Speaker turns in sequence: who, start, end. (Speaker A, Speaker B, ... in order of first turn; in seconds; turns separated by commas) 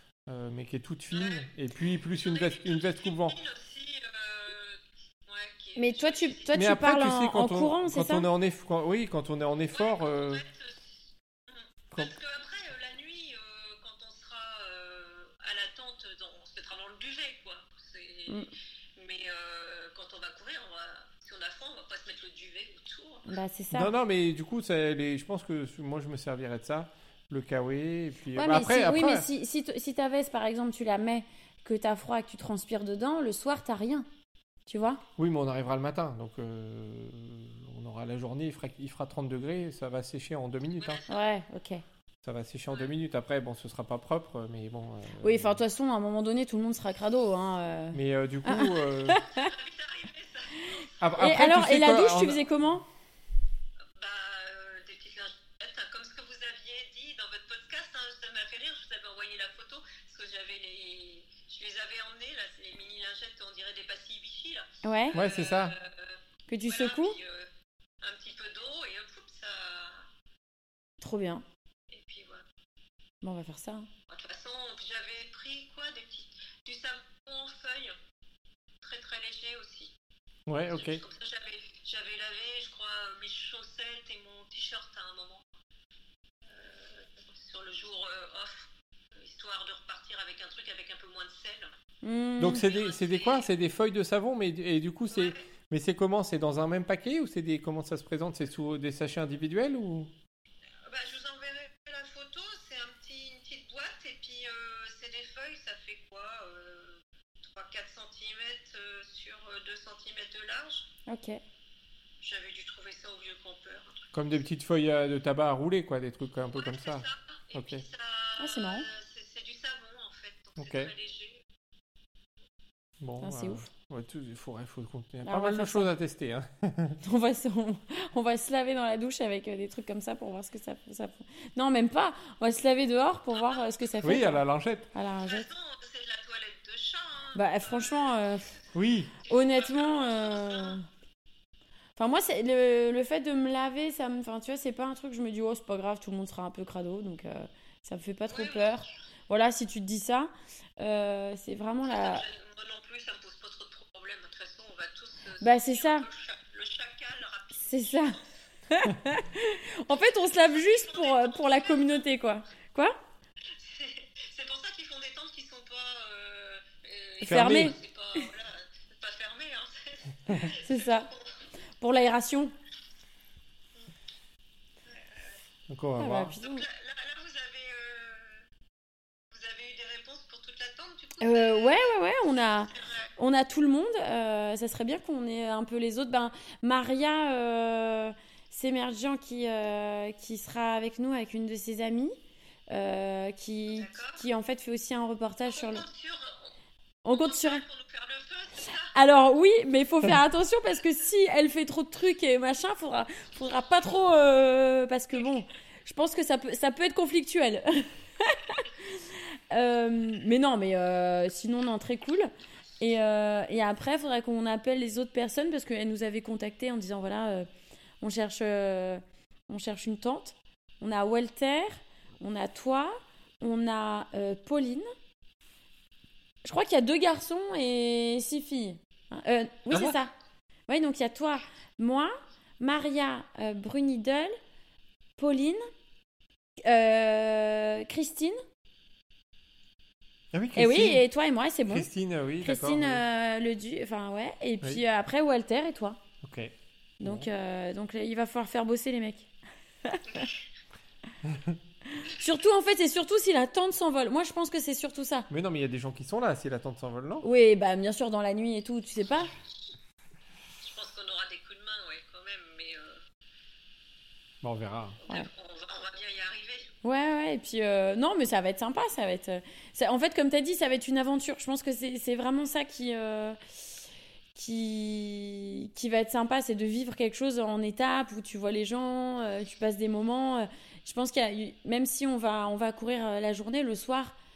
Speaker A: 0.3-3.4, Speaker B: 1.1-1.5, Speaker B: 2.2-6.5, Speaker C: 5.8-8.3, Speaker A: 6.5-10.4, Speaker B: 9.7-23.3, Speaker C: 23.3-23.9, Speaker A: 23.7-29.2, Speaker C: 28.4-34.1, Speaker C: 34.7-35.0, Speaker A: 35.2-41.0, Speaker B: 40.8-41.2, Speaker C: 41.1-41.8, Speaker A: 42.2-45.6, Speaker C: 45.2-49.5, Speaker A: 47.9-49.2, Speaker B: 49.3-50.9, Speaker A: 51.0-52.4, Speaker C: 51.2-52.9, Speaker B: 54.0-67.5, Speaker C: 64.8-65.2, Speaker A: 65.1-65.7, Speaker C: 66.5-67.2, Speaker B: 68.0-70.1, Speaker C: 71.0-71.4, Speaker B: 71.9-72.4, Speaker C: 73.2-73.9, Speaker B: 74.1-77.9, Speaker B: 78.8-79.9, Speaker A: 80.5-81.0, Speaker B: 80.7-85.4, Speaker B: 86.4-91.7, Speaker C: 92.0-92.6, Speaker A: 92.4-100.1, Speaker B: 92.5-93.5, Speaker B: 95.1-95.4, Speaker B: 100.8-110.9, Speaker C: 111.1-111.4, Speaker B: 112.2-114.1, Speaker A: 114.1-117.8, Speaker B: 116.5-121.4, Speaker C: 118.4-118.9, Speaker A: 120.6-120.9, Speaker A: 123.0-127.0, Speaker C: 123.2-123.7, Speaker C: 125.2-125.9, Speaker C: 127.0-134.4, Speaker B: 133.3-134.2, Speaker A: 134.0-134.9, Speaker C: 134.9-135.5, Speaker B: 135.2-138.6, Speaker C: 137.3-138.5, Speaker A: 138.7-139.1, Speaker B: 139.2-140.8, Speaker C: 139.2-140.8, Speaker C: 142.0-152.2, Speaker B: 148.3-148.9, Speaker B: 151.8-158.3, Speaker C: 155.4-156.1, Speaker C: 157.7-163.0, Speaker B: 160.2-162.1, Speaker B: 163.5-171.4, Speaker C: 167.2-168.2, Speaker A: 167.2-167.7, Speaker C: 170.6-171.1, Speaker C: 171.8-172.5, Speaker B: 174.8-175.4, Speaker A: 175.7-176.3, Speaker C: 176.0-176.6, Speaker B: 176.3-178.4, Speaker B: 179.3-183.1, Speaker C: 181.2-192.2, Speaker C: 192.7-195.8, Speaker B: 193.7-194.2, Speaker B: 195.4-196.5, Speaker C: 197.0-197.6, Speaker B: 197.1-198.9, Speaker C: 198.9-217.5, Speaker C: 218.0-224.9, Speaker C: 226.4-230.1, Speaker A: 229.7-229.9, Speaker C: 230.7-234.3, Speaker C: 235.2-235.6, Speaker C: 236.6-238.4, Speaker A: 240.3-241.0, Speaker C: 240.6-241.9, Speaker A: 241.7-243.0, Speaker C: 242.4-246.0, Speaker A: 246.2-247.3, Speaker C: 247.0-249.3, Speaker C: 249.8-250.3, Speaker A: 251.2-251.6, Speaker C: 251.9-255.3, Speaker A: 255.3-257.2, Speaker C: 257.2-259.3, Speaker B: 260.6-263.0, Speaker A: 264.4-265.0, Speaker B: 265.0-266.7, Speaker C: 266.8-273.4, Speaker C: 274.3-284.1